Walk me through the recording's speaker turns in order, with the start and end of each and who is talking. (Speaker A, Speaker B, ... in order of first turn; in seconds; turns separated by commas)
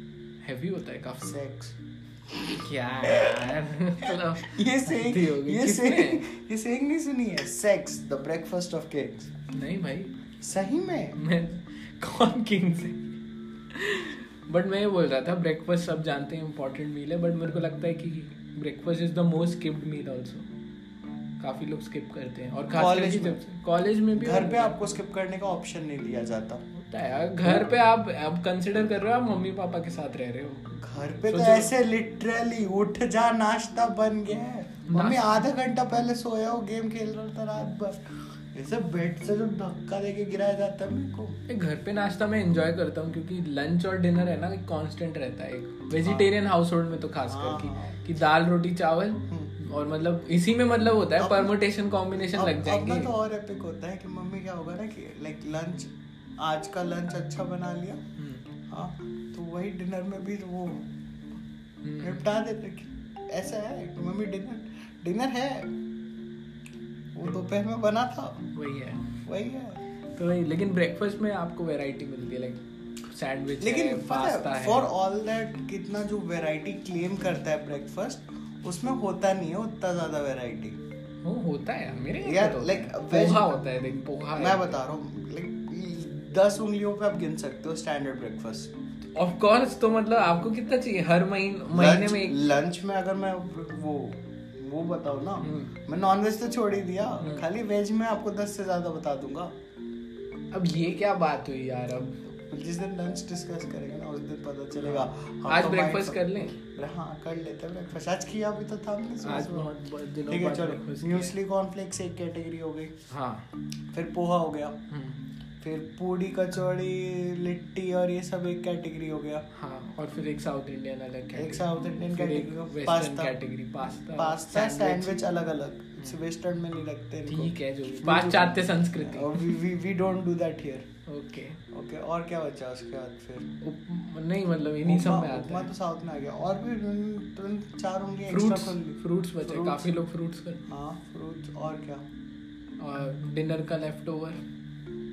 Speaker A: 0.4-1.4, Speaker B: 1.2-1.7, Speaker A: 2.5-6.2, Speaker B: 3.0-9.3, Speaker A: 9.5-10.1, Speaker B: 10.4-11.2, Speaker A: 11.2-13.2, Speaker A: 13.7-20.5, Speaker A: 21.4-25.0, Speaker B: 22.7-23.4, Speaker B: 24.1-26.6, Speaker A: 26.7-30.7, Speaker B: 30.7-41.4, Speaker A: 31.3-31.7, Speaker A: 34.9-35.4, Speaker A: 41.5-53.1, Speaker B: 46.0-46.3, Speaker B: 47.2-48.0, Speaker B: 49.3-49.5, Speaker B: 51.2-51.5, Speaker B: 52.2-58.0, Speaker A: 58.2-58.4, Speaker B: 58.7-60.9, Speaker A: 61.8-62.2, Speaker B: 62.0-65.8, Speaker B: 67.1-68.5, Speaker A: 68.5-69.1, Speaker B: 69.2-69.8, Speaker A: 70.1-74.9, Speaker B: 73.6-80.8, Speaker A: 81.2-84.8, Speaker B: 82.2-83.6, Speaker B: 84.3-88.7, Speaker A: 89.1-92.4, Speaker B: 91.7-99.5, Speaker A: 95.4-95.7, Speaker A: 97.2-97.5, Speaker A: 100.5-102.2, Speaker B: 102.3-109.7, Speaker A: 104.8-106.6, Speaker A: 109.2-111.3, Speaker B: 110.3-113.0, Speaker A: 113.1-113.5, Speaker B: 113.9-114.8, Speaker A: 114.9-115.2, Speaker B: 115.6-119.5, Speaker A: 119.5-125.1, Speaker B: 121.3-123.4, Speaker B: 124.1-130.9, Speaker A: 127.3-129.6, Speaker A: 131.1-131.6, Speaker B: 131.7-133.5, Speaker A: 133.6-135.7, Speaker B: 134.8-139.9, Speaker A: 138.3-140.7, Speaker B: 140.7-142.0, Speaker A: 142.8-144.4